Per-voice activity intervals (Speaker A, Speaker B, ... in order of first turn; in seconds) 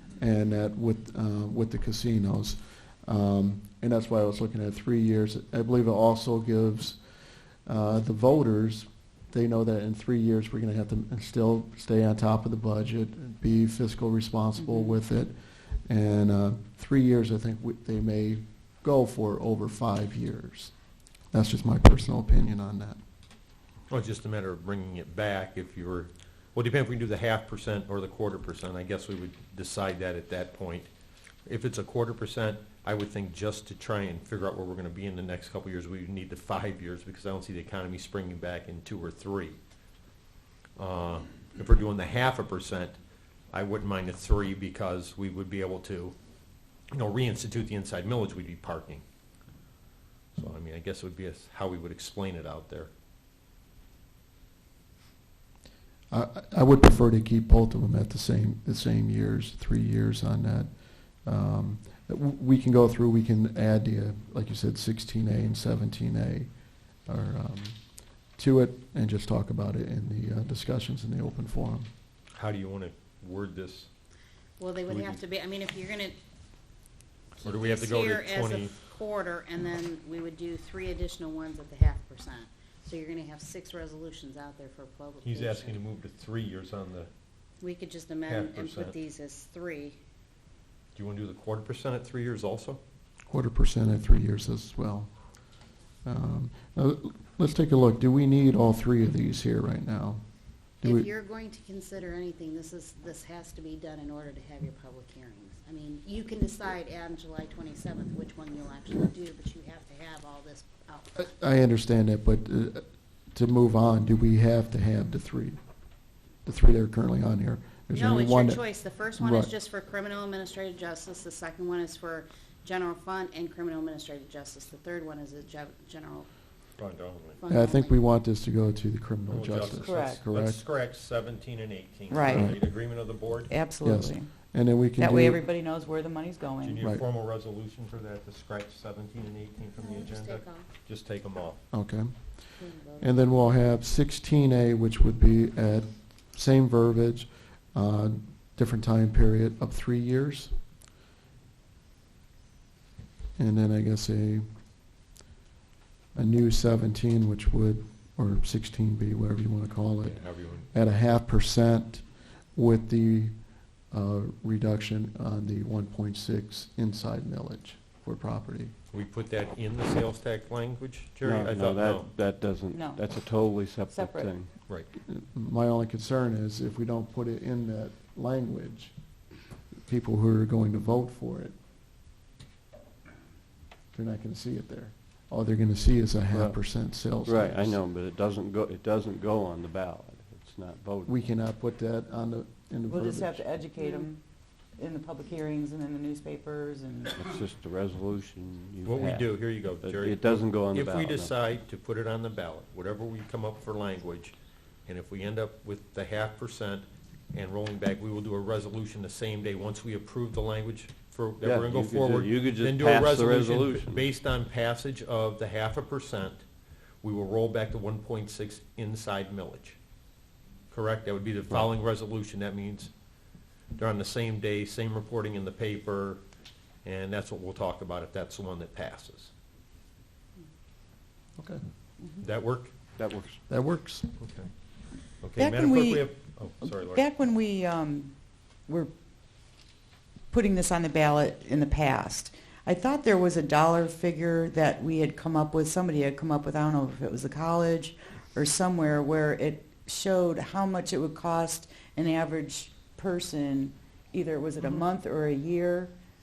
Speaker A: 0.2-7.0, 7.7-15.3, 15.9-20.7, 21.3-23.0, 56.1-60.7, 61.2-66.5, 67.1-67.8, 68.4-71.9, 93.3-95.1, 96.0-100.2, 111.2-115.6, 116.5-118.6, 119.2-119.5, 127.5-130.6, 132.3-132.6, 133.8-135.4, 141.7-142.2, 143.0-150.5, 153.4-154.4, 156.2-160.2, 160.7-162.0, 162.6-163.3, 163.9-168.7, 175.1-178.9, 179.8-181.6, 183.9-187.8, 191.1-193.4, 233.5-234.1
Speaker B: 23.9-30.9, 31.5-39.6, 40.8-43.0, 43.5-46.1, 46.9-49.0, 50.4-52.9, 72.3-73.9, 74.9-75.2, 77.4-78.8, 85.2-87.1, 88.3-89.0, 91.0-92.8, 126.8-127.4, 129.3-133.5, 136.6-141.6, 160.1-160.7, 168.9-172.1, 198.8-204.3, 204.9-216.4, 217.0-219.8, 220.7-222.9, 223.8-226.2, 226.8-229.3, 232.2-232.7, 234.2-234.5, 235.2-237.1
Speaker C: 74.6-76.2, 77.4-85.8, 87.6-90.0, 100.8-111.3, 117.9-126.3, 127.4-128.0, 139.8-140.7, 142.6-143.2, 193.8-194.1, 254.6-254.9
Speaker D: 129.8-130.2, 132.1-132.6, 133.5-134.3, 135.0-136.8, 172.7-173.0, 173.9-174.3, 192.9-194.2, 194.8-197.2, 235.4-236.1, 236.6-238.1, 240.3-255.9
Speaker E: 171.2-174.5, 186.3-186.7, 187.2-191.2, 197.1-201.4, 211.4-214.1, 233.0-233.4